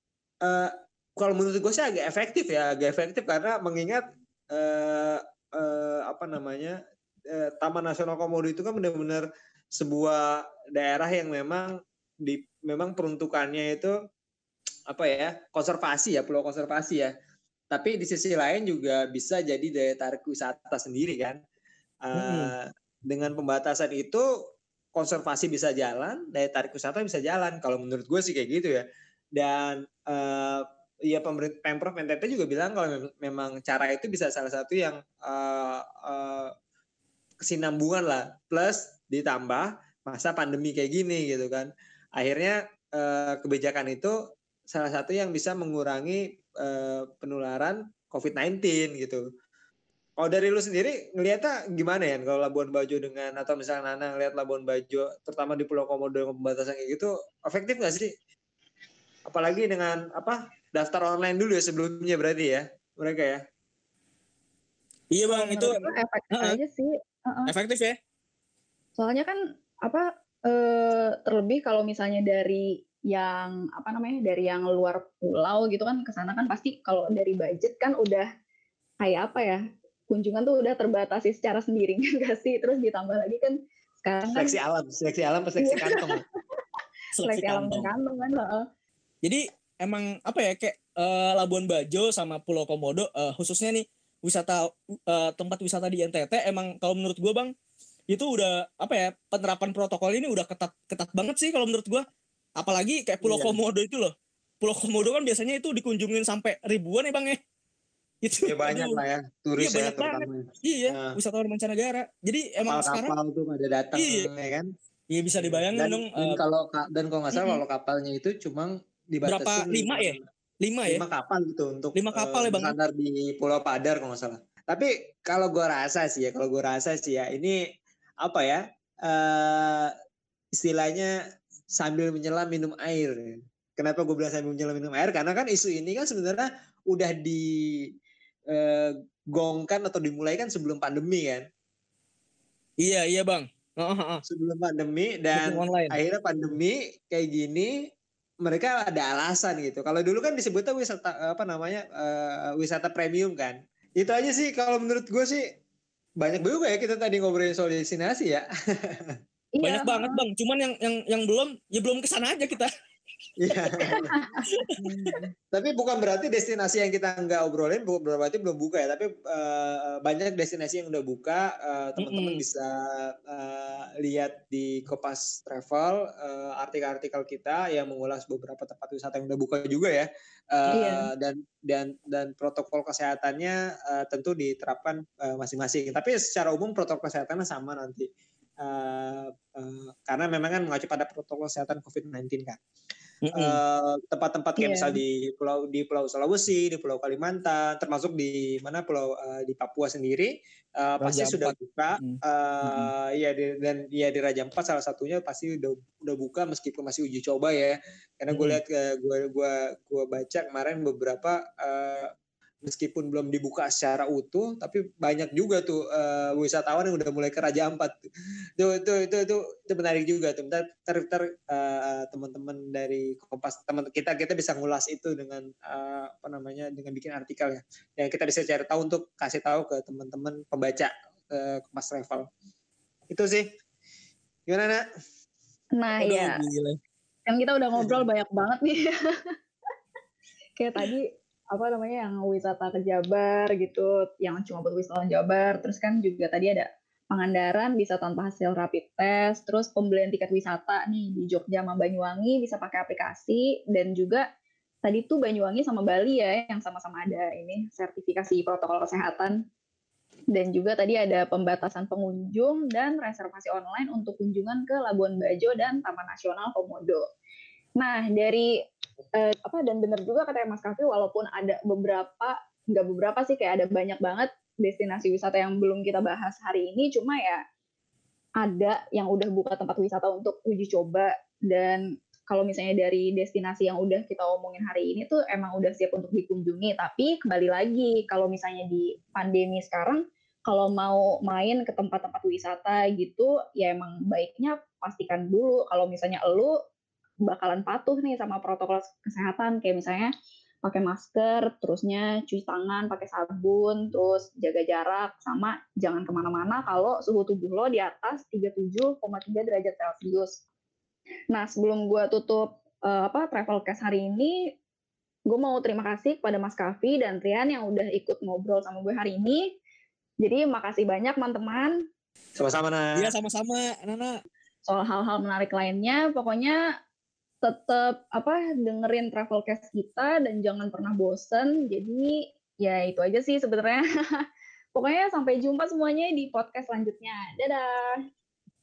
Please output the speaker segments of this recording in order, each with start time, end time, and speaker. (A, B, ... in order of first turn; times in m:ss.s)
0:00.4-0:06.8 A
0:07.3-0:13.9 A
0:14.9-0:17.1 A
0:17.7-0:21.4 A
0:22.0-0:24.2 A
0:22.2-0:22.5 B
0:25.0-0:28.8 A
0:29.4-0:36.5 A
0:37.4-0:44.2 A
0:44.7-0:49.2 A
0:50.2-0:58.1 A
0:59.3-1:03.4 A
1:05.1-1:05.8 B
1:05.3-1:07.5 C
1:06.3-1:06.6 B
1:07.5-1:08.0 B
1:09.0-1:18.3 C
1:19.0-1:24.5 C
1:24.3-1:26.2 A
1:25.6-1:26.6 C
1:27.2-1:27.9 B
1:27.2-1:28.6 C
1:29.2-1:37.5 B
1:38.1-1:42.0 B
1:42.6-1:47.4 B
1:43.2-1:43.6 A
1:48.2-1:49.0 B
1:48.4-1:51.2 A
1:49.6-1:53.1 B
1:52.7-1:54.7 A
1:53.9-1:54.3 B
1:55.1-1:56.4 B
1:55.4-2:00.2 A
1:59.2-2:01.0 B
2:00.8-2:07.6 A
2:01.9-2:02.7 B
2:08.2-2:09.9 A
2:10.5-2:11.1 A
2:11.8-2:17.4 A
2:18.5-2:21.4 A
2:22.8-2:24.2 B
2:24.3-2:27.7 A
2:25.3-2:25.9 B
2:28.4-2:35.5 A
2:36.2-2:39.1 A
2:39.6-2:40.2 C
2:39.6-2:42.7 B
2:43.4-2:44.1 A
2:43.8-2:44.5 C
2:44.5-2:45.1 B
2:45.0-3:08.1 A
2:52.0-2:52.4 B
3:00.7-3:01.1 C
3:08.6-3:12.6 A
3:13.2-3:13.6 B
3:13.3-3:32.1 A
3:14.6-3:15.0 C
3:21.0-3:22.9 B
3:28.3-3:28.6 B
3:32.6-3:38.0 A
3:38.6-3:52.3 A
3:53.1-3:53.5 A
3:54.5-3:54.8 A
3:55.7-3:56.4 C
3:56.0-3:56.8 B
3:57.3-3:59.3 C
4:00.6-4:14.2 C
4:14.8-4:19.4 C
4:20.3-4:27.0 C
4:27.8-4:28.5 C
4:29.2-4:37.4 C
4:38.4-4:56.5 C
4:57.2-5:00.1 C
5:00.6-5:10.4 C
5:11.3-5:14.5 C
5:15.3-5:19.5 C
5:20.2-5:21.8 C
5:22.4-5:23.1 A
5:23.0-5:24.2 B
5:24.7-5:26.6 C
5:27.4-5:38.0 C